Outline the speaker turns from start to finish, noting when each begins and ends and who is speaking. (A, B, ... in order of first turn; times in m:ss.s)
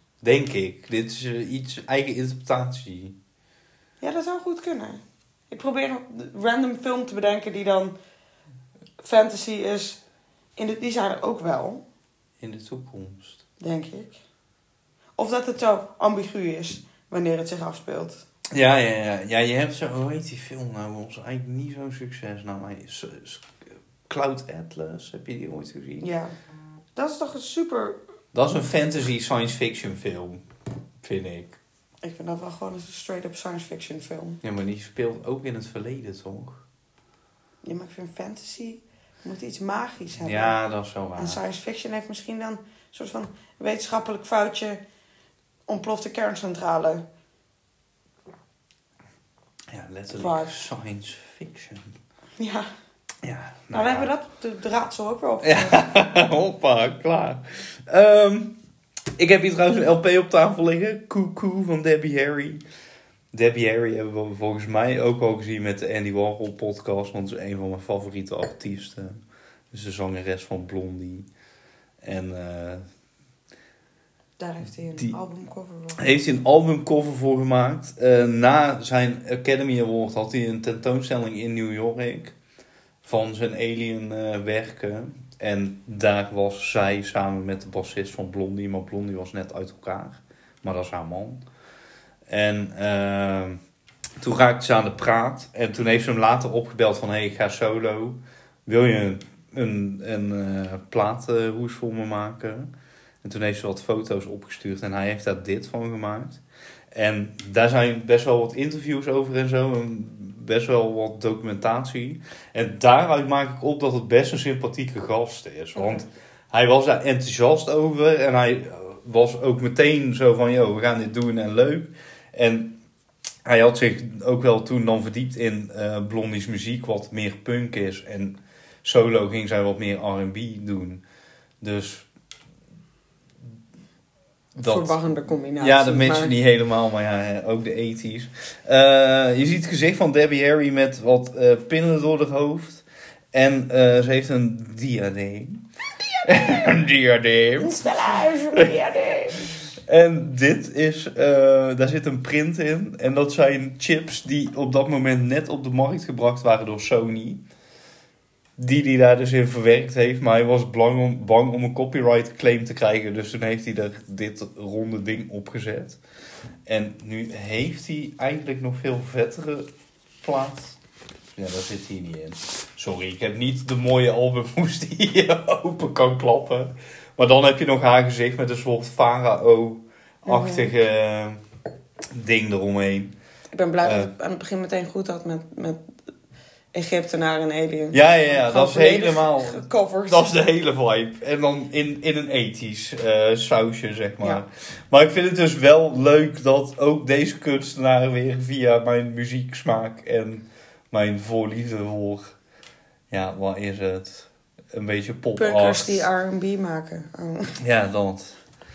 0:00.2-0:03.2 A
0:04.0-0:07.9 B
0:09.0-0:10.0 B
0:10.6-0:11.8 B
0:12.4-0:13.4 A
0:13.6-0:14.2 B
0:15.2-0:18.2 B
0:18.5-0:26.1 A
0:26.0-0:26.3 B
0:27.0-0:28.0 B
0:28.3-0:30.4 A
0:31.0-0:31.6 A
0:32.0-0:34.4 B
0:34.4-0:36.6 A
0:37.6-0:40.5 B
0:40.2-0:41.4 A
0:41.2-0:44.8 B
0:45.7-0:47.0 B
0:49.7-0:51.9 A
0:50.1-0:50.5 B
0:52.4-0:52.7 B
0:53.2-0:54.1 A
0:53.7-0:55.8 B
0:55.4-0:58.5 A
0:59.2-1:02.6 A
1:03.3-1:09.2 A
1:09.7-1:11.3 A
1:12.0-1:12.8 A
1:14.4-1:16.1 B
1:15.9-1:22.3 A
1:23.0-1:31.4 A
1:32.3-1:33.6 A
1:34.2-1:42.7 A
1:43.2-1:46.4 A
1:46.9-2:02.7 A
1:55.8-1:56.0 B
2:03.4-2:11.0 A
2:11.6-2:12.1 A
2:14.5-2:15.0 A
2:14.6-2:16.3 B
2:15.6-2:25.6 A
2:26.2-2:28.9 A
2:27.6-2:29.6 B
2:29.7-2:37.4 A
2:38.6-2:46.0 A
2:46.6-2:49.7 A
2:50.2-2:50.8 A
2:51.3-3:01.4 A
3:00.2-3:00.7 B
3:02.1-3:03.1 A
3:03.5-3:05.8 B
3:03.8-3:04.1 A
3:06.7-3:10.3 B
3:07.9-3:22.3 A
3:23.1-3:26.1 A
3:25.4-3:27.6 B
3:27.6-3:28.4 A